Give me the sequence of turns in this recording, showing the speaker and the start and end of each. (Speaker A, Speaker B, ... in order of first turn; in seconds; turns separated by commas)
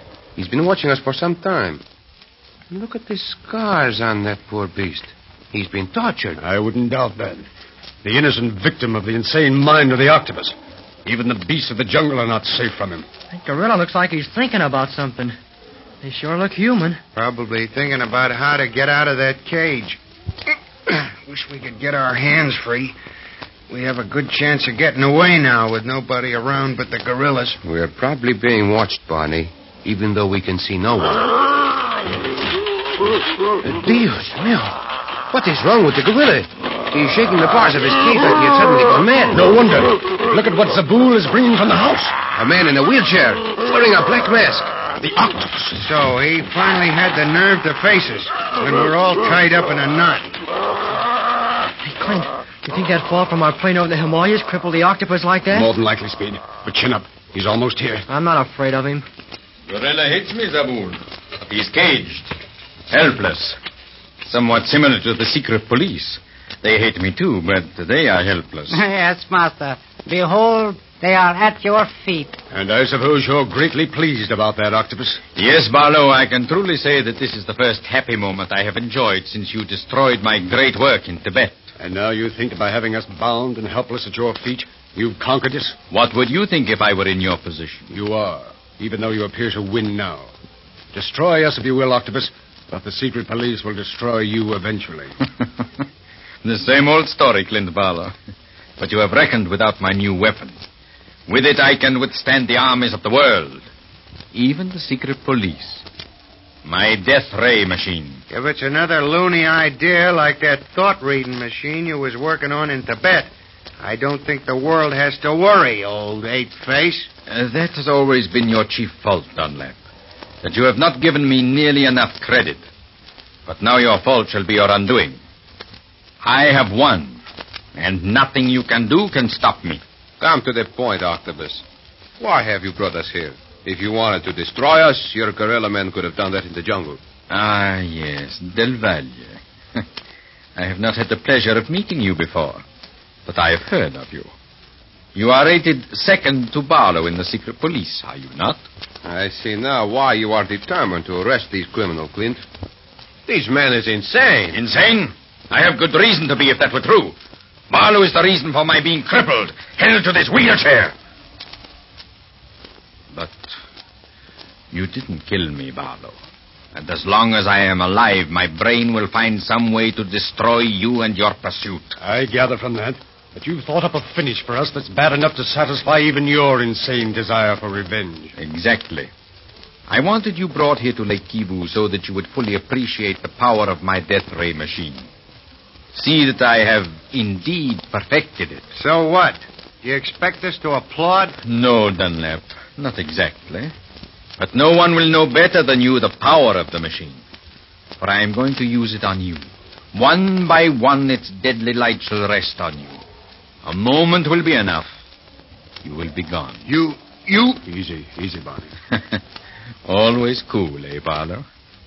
Speaker A: 0.3-1.8, Speaker A: 2.7-6.4, Speaker B: 6.4-7.5, Speaker B: 8.0-13.1, Speaker C: 13.3-15.3, Speaker C: 16.0-17.0, Speaker D: 17.1-20.0, Speaker D: 20.9-22.9, Speaker D: 23.7-27.6, Speaker A: 27.6-31.3, Speaker A: 33.6-39.4, Speaker B: 39.3-42.1, Speaker A: 42.3-44.7, Speaker B: 45.0-45.8, Speaker D: 45.8-50.3, Speaker C: 51.8-55.7, Speaker B: 55.5-58.0, Speaker C: 58.1-59.0, Speaker E: 59.7-62.3, Speaker E: 62.9-63.5, Speaker E: 64.2-68.8, Speaker F: 68.7-72.4, Speaker B: 72.5-75.2, Speaker E: 75.3-81.7, Speaker B: 81.8-85.8, Speaker E: 85.9-87.9, Speaker B: 87.9-90.3, Speaker B: 90.9-95.1, Speaker E: 96.4-98.1, Speaker E: 98.8-100.6, Speaker E: 101.3-103.7, Speaker E: 104.3-105.8, Speaker E: 106.6-108.2, Speaker D: 108.3-117.1, Speaker E: 117.3-119.8, Speaker E: 120.4-122.6, Speaker E: 123.5-125.2, Speaker E: 126.2-127.2, Speaker E: 127.8-129.8, Speaker A: 130.2-131.6, Speaker A: 132.2-137.0, Speaker E: 137.3-139.8, Speaker E: 140.6-142.6, Speaker E: 143.2-144.3, Speaker E: 145.1-148.6, Speaker A: 149.1-152.4, Speaker A: 153.3-154.5, Speaker E: 154.5-157.1, Speaker E: 157.7-160.9, Speaker E: 163.1-163.5, Speaker E: 164.7-166.2, Speaker E: 166.7-171.9, Speaker B: 172.0-178.3, Speaker E: 178.4-179.1, Speaker E: 179.9-185.1, Speaker E: 185.9-188.7, Speaker D: 188.8-191.3, Speaker E: 191.4-193.7, Speaker E: 194.4-197.2, Speaker E: 198.0-203.0, Speaker E: 203.6-204.9, Speaker E: 205.8-206.6, Speaker D: 206.7-207.0, Speaker B: 207.1-208.7, Speaker E: 208.9-209.2, Speaker E: 209.9-211.4